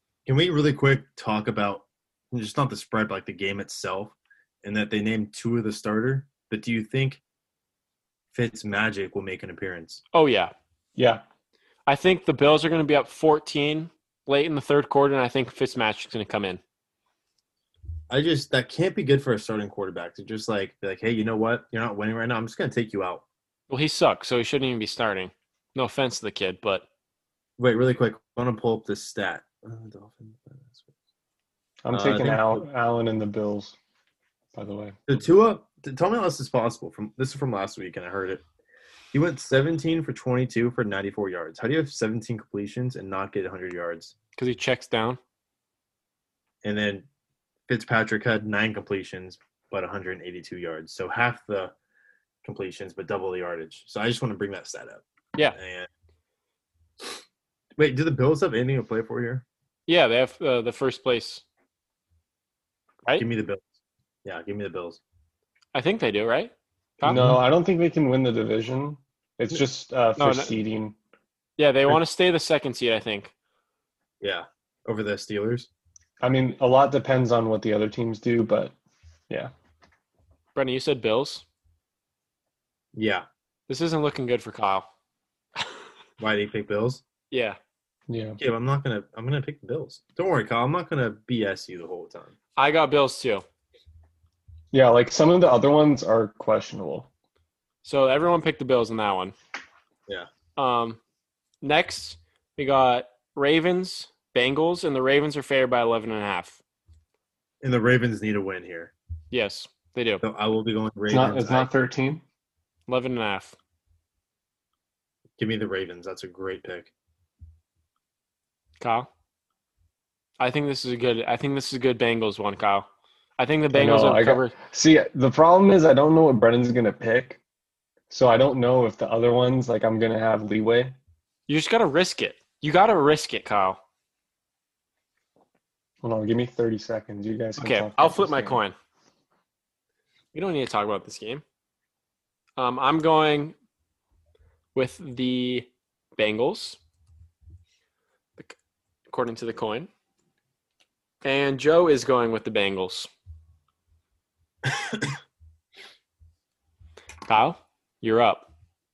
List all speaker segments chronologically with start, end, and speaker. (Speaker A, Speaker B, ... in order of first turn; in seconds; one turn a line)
Speaker A: 0.2-7.2
Speaker A: 8.3-10.0
Speaker B: 10.1-10.5
Speaker C: 10.9-11.2
Speaker B: 11.9-16.6
Speaker A: 18.1-23.2
Speaker B: 23.7-26.9
Speaker A: 27.6-30.9
Speaker C: 31.8-33.8
Speaker A: 31.9-32.6
Speaker C: 34.5-35.0
Speaker A: 35.1-38.4
Speaker A: 39.1-44.1
Speaker B: 44.4-45.2
Speaker A: 46.6-47.0
Speaker A: 47.7-51.7
Speaker A: 52.4-55.0
Speaker A: 55.5-55.9
Speaker A: 57.8-59.4
Speaker B: 59.9-61.4
Speaker A: 63.1-63.6
Speaker A: 64.2-65.0
Speaker B: 65.7-67.3
Speaker A: 67.0-67.4
Speaker C: 67.0-71.0
Speaker B: 70.2-70.6
Speaker B: 71.6-73.3
Speaker A: 74.2-75.7
Speaker C: 76.2-78.7
Speaker B: 80.5-81.4
Speaker A: 82.9-83.2
Speaker B: 83.7-84.9
Speaker A: 86.2-87.0
Speaker B: 87.3-87.6
Speaker C: 88.1-88.4
Speaker A: 88.4-92.3
Speaker B: 92.6-93.4
Speaker C: 94.7-97.1
Speaker B: 97.8-99.3
Speaker B: 100.5-101.0
Speaker B: 101.6-106.6
Speaker A: 107.6-108.9
Speaker B: 109.3-110.2
Speaker A: 110.2-111.8
Speaker C: 111.1-112.2
Speaker B: 112.9-113.5
Speaker A: 115.4-116.9
Speaker B: 118.8-119.1
Speaker B: 120.4-124.5
Speaker C: 123.7-127.4
Speaker C: 128.1-130.9
Speaker B: 131.5-133.8
Speaker C: 136.0-138.6
Speaker B: 137.6-138.7
Speaker B: 140.3-141.4
Speaker B: 142.6-143.5
Speaker B: 144.7-146.8
Speaker B: 149.1-149.9
Speaker B: 151.2-153.1
Speaker A: 154.7-155.1
Speaker B: 157.3-158.5